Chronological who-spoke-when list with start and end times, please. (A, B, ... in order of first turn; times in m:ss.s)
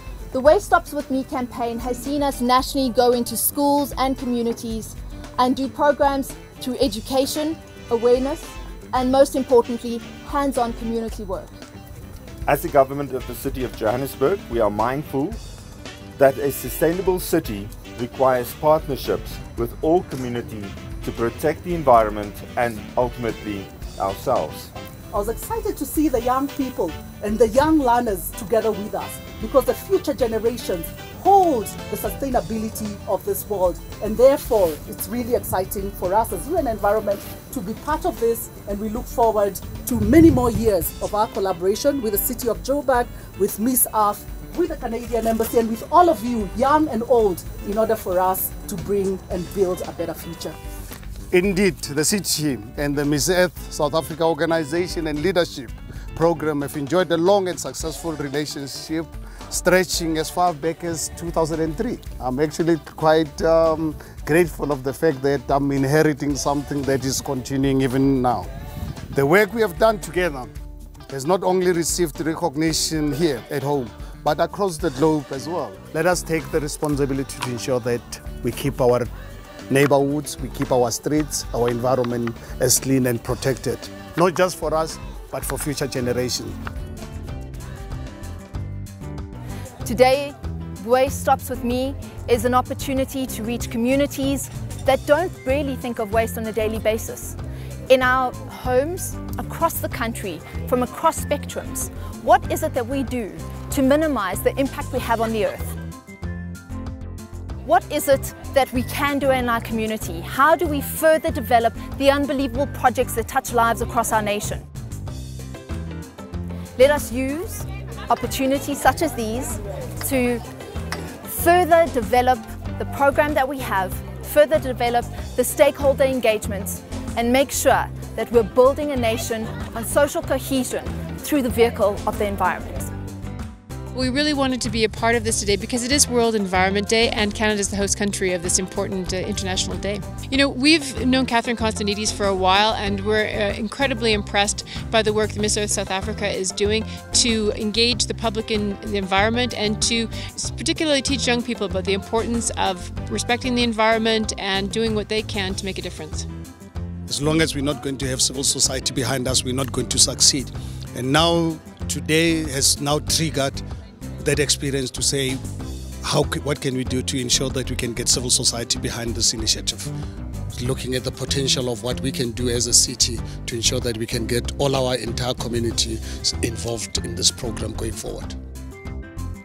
0:00.3-0:11.5 A
0:12.5-0:15.4 B
0:16.2-0:24.7 B
0:25.1-0:50.6 C
0:51.3-1:08.5 D
1:09.1-1:10.5 D
1:11.1-1:19.1 D
1:19.7-1:26.5 D
1:29.8-1:37.4 A
1:37.9-1:45.8 A
1:47.6-1:54.6 A
1:56.8-2:00.4 A
2:01.2-2:12.9 A
2:13.9-2:36.3 E
2:37.1-2:43.6 D
2:44.2-2:45.4 D
2:46.0-2:49.9 D
2:50.5-2:58.4 D